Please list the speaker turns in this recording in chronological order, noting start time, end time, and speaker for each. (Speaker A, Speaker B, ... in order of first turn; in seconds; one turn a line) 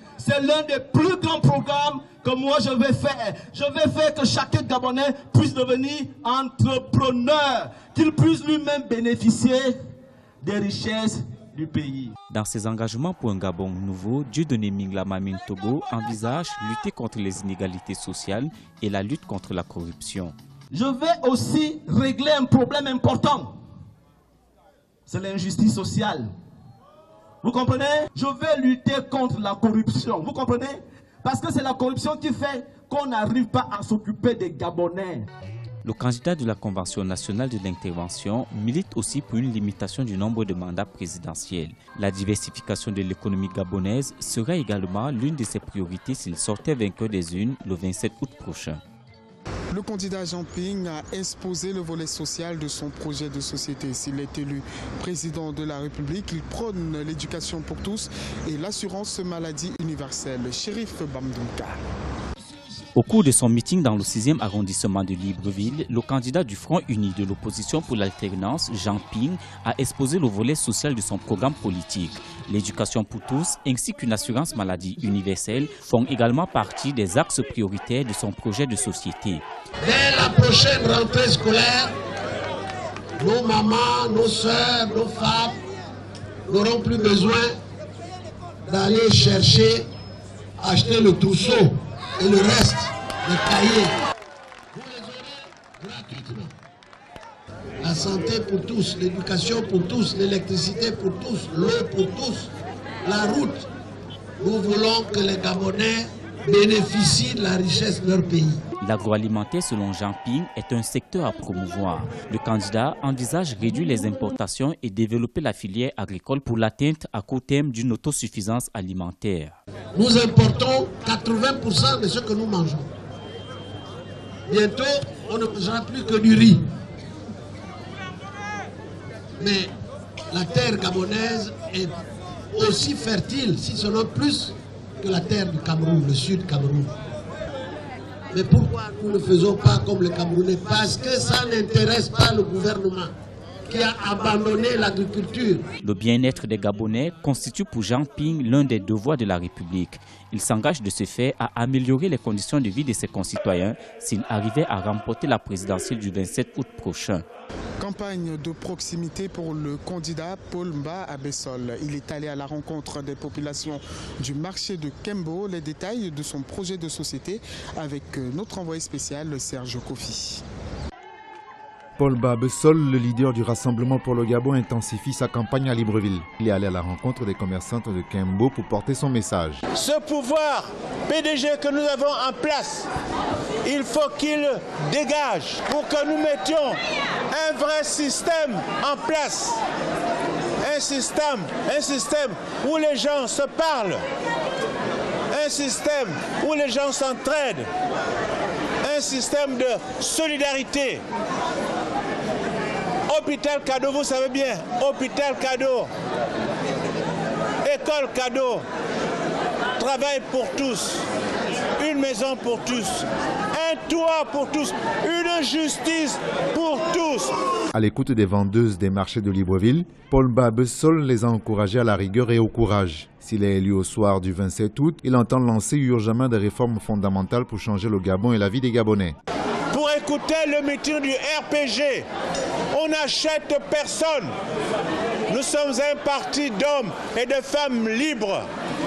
Speaker A: 0.2-9.7
Speaker A: 10.4-12.1
Speaker B: 12.3-20.3
Speaker A: 20.7-23.5
Speaker A: 25.1-26.3
Speaker A: 27.4-35.3
Speaker B: 35.8-48.8
Speaker C: 49.7-61.8
Speaker B: 62.9-79.4
Speaker D: 79.8-81.9
Speaker D: 83.2-85.6
Speaker D: 86.5-87.6
Speaker D: 88.6-89.9
Speaker D: 90.6-93.9
Speaker D: 94.7-96.5
Speaker D: 97.8-102.5
Speaker D: 103.0-103.7
Speaker D: 104.4-108.6
Speaker B: 108.8-119.5
Speaker D: 119.9-122.9
Speaker D: 124.5-126.7
Speaker D: 129.4-129.7
Speaker D: 130.3-132.0
Speaker D: 132.5-136.9
Speaker D: 138.3-143.1
Speaker D: 143.7-145.7
Speaker B: 145.8-157.2
Speaker C: 157.8-170.4
Speaker E: 172.0-179.6
Speaker F: 179.7-182.9
Speaker F: 183.6-186.8
Speaker F: 187.3-189.6
Speaker F: 190.6-194.0
Speaker F: 195.3-197.7
Speaker F: 198.8-201.0
Speaker F: 203.1-205.9
Speaker F: 207.6-208.6
Speaker F: 209.8-211.0
Speaker F: 211.8-217.3
Speaker E: 217.7-229.2
Speaker F: 229.7-232.1
Speaker F: 232.7-234.3
Speaker F: 235.3-238.5